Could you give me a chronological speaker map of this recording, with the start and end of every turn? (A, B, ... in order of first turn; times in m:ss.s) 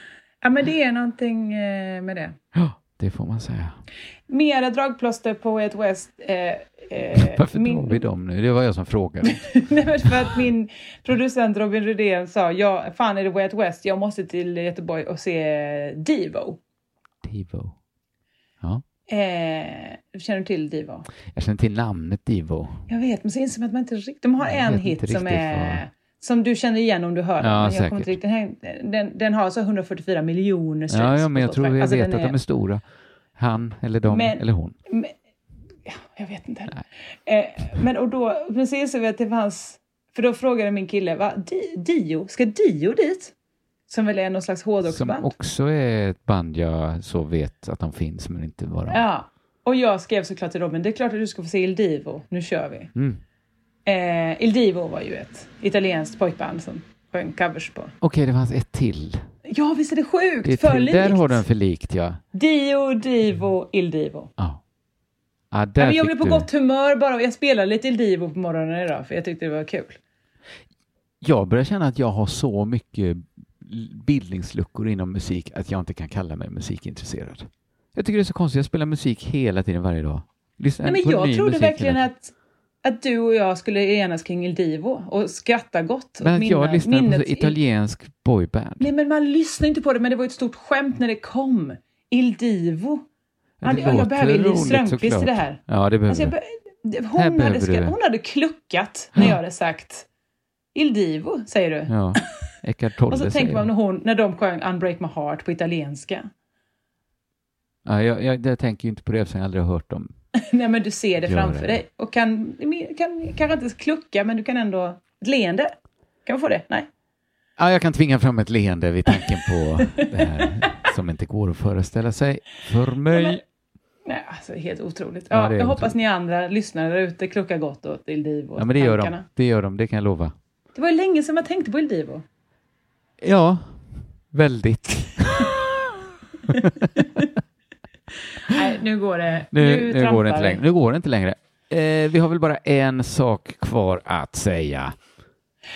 0:00.4-0:02.4 A
0:02.5-0:03.8 B
0:04.3-0:08.0 A
0:07.2-0:10.1 B
0:09.2-0:16.6 A
0:17.2-0:17.7 B
0:19.1-0:21.0 A
0:21.3-0:22.8 B
0:22.9-0:32.4 A
0:24.4-0:25.8 B
0:27.4-0:28.2 B
0:30.9-0:32.8 B
0:33.4-0:34.8 B
0:34.1-0:35.1 A
0:35.8-0:43.3 A
0:43.9-0:45.3 A
0:44.8-0:49.0 B
0:48.9-0:52.9 A
0:52.9-0:53.2 B
0:53.8-0:57.9 A
0:58.0-0:59.2 B
0:59.5-1:01.4 A
1:00.4-1:02.2 B
1:02.3-1:04.3 A
1:05.5-1:06.5 B
1:05.8-1:10.0 A
1:11.2-1:22.0 B
1:20.8-1:22.3 A
1:22.8-1:27.6 A
1:26.2-1:28.9 B
1:28.8-1:33.0 A
1:33.6-1:36.3 B
1:33.6-1:40.1 A
1:37.1-1:37.9 B
1:40.7-1:41.9 A
1:41.9-1:43.7 B
1:43.1-1:46.3 A
1:47.8-1:50.1 B
1:50.4-1:55.7 A
1:51.2-1:51.8 B
1:56.2-1:56.9 A
1:57.6-2:03.4 B
1:59.8-2:00.5 A
2:03.1-2:03.4 A
2:04.0-2:09.2 A
2:05.3-2:05.9 B
2:08.6-2:10.3 B
2:10.7-2:12.2 A
2:13.2-2:15.9 B
2:16.4-2:17.3 B
2:18.4-2:20.6 A
2:19.5-2:25.0 B